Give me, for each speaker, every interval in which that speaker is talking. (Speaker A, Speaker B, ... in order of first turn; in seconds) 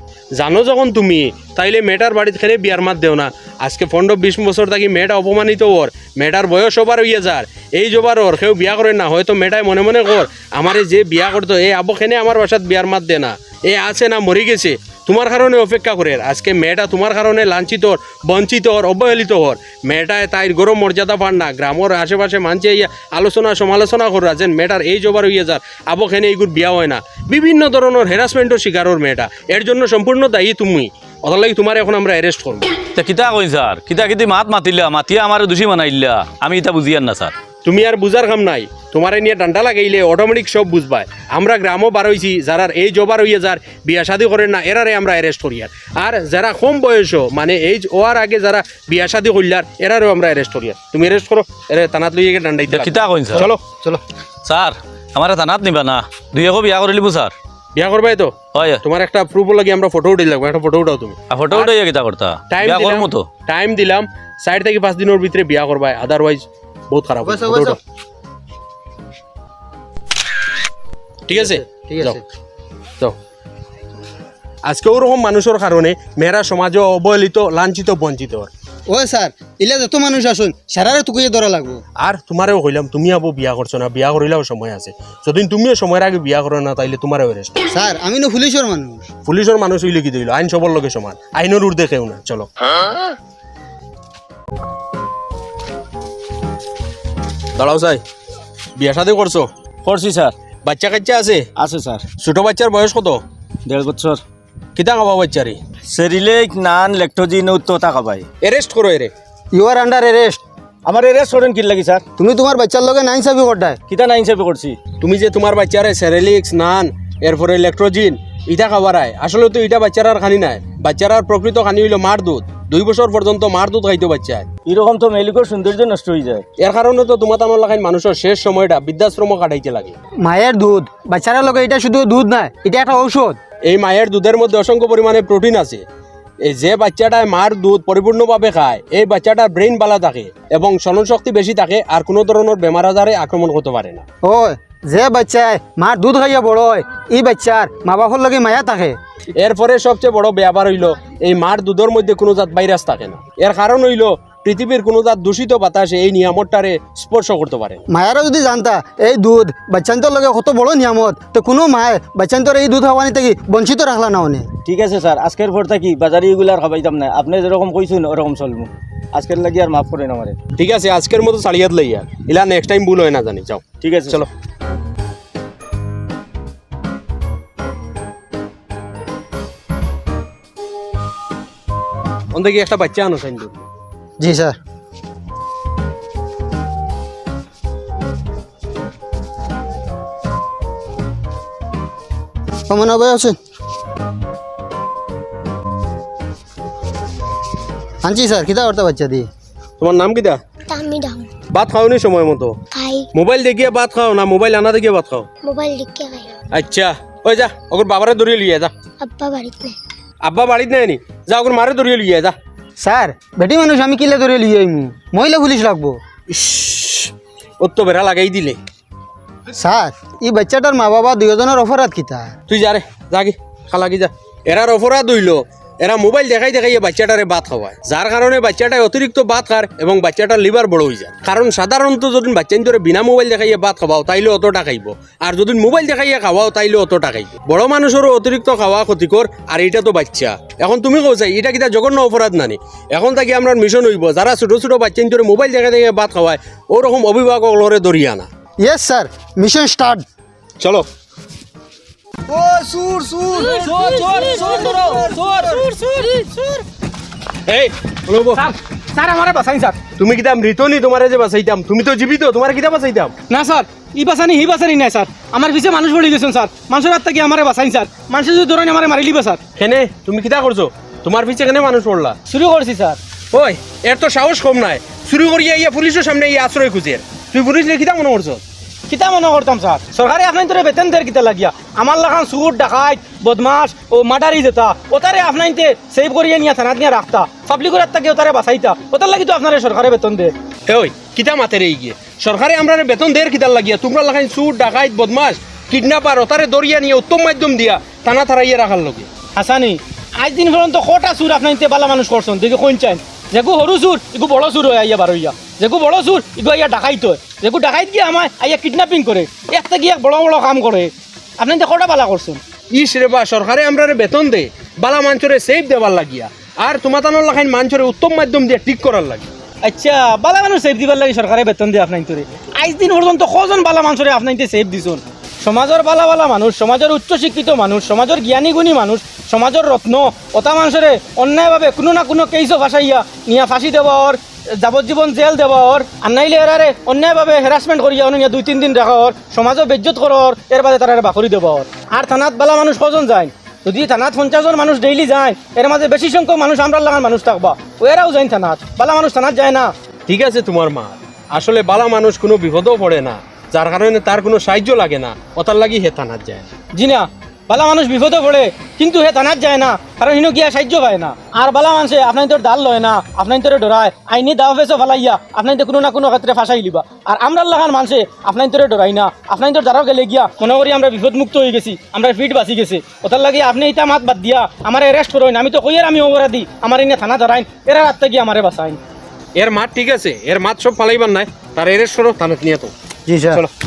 Speaker A: 0.3-32.7, 37.6-53.6, 57.8-61.8, 62.5-67.8, 71.3-72.2, 74.6-78.5, 82.0-87.6, 89.3-92.5, 97.6-98.0, 98.8-99.5, 100.6-101.5, 102.2-103.2, 104.8-105.6, 108.4-109.1, 115.0-124.5, 126.6-130.0, 133.7-135.8, 136.4-144.0, 149.4-157.8, 170.6-174.3, 182.3-183.6, 199.8-200.4, 201.5-202.6, 203.1-205.3, 206.5-208.7, 210.2-212.4, 216.3-218.6, 222.5-248.3, 250.6-250.9, 257.5-258.4, 260.0-263.1, 269.6-272.2, 273.3-278.4, 290.7-299.1, 312.7-319.3, 350.1-356.5, 379.4-382.7
Speaker B: 32.9-37.3, 52.7-53.5, 54.5-57.3, 58.5-58.8, 61.3-63.3
Speaker C: 53.3-54.0, 67.2-67.8, 71.3-72.2, 78.9-81.8, 87.7-89.1, 109.5-110.4, 112.2-113.8, 130.2-133.4, 144.2-149.0, 157.9-164.5, 184.2-184.6, 192.7-193.4, 198.0-199.3, 212.8-216.0, 219.6-222.3, 248.6-250.1, 252.3-253.5, 383.1-383.4
Speaker D: 99.8-100.3, 101.6-102.0, 103.7-104.2, 105.9-108.2, 110.8-112.0, 113.9-114.8, 124.7-126.4, 164.7-170.4, 173.8-174.2
Speaker E: 200.7-201.3, 202.7-203.1, 205.4-206.3, 209.0-209.8
Speaker F: 253.3-256.3, 258.3-259.8, 263.3-269.4, 272.3-273.0, 278.9-290.3, 299.4-312.4, 319.6-349.7, 356.7-378.8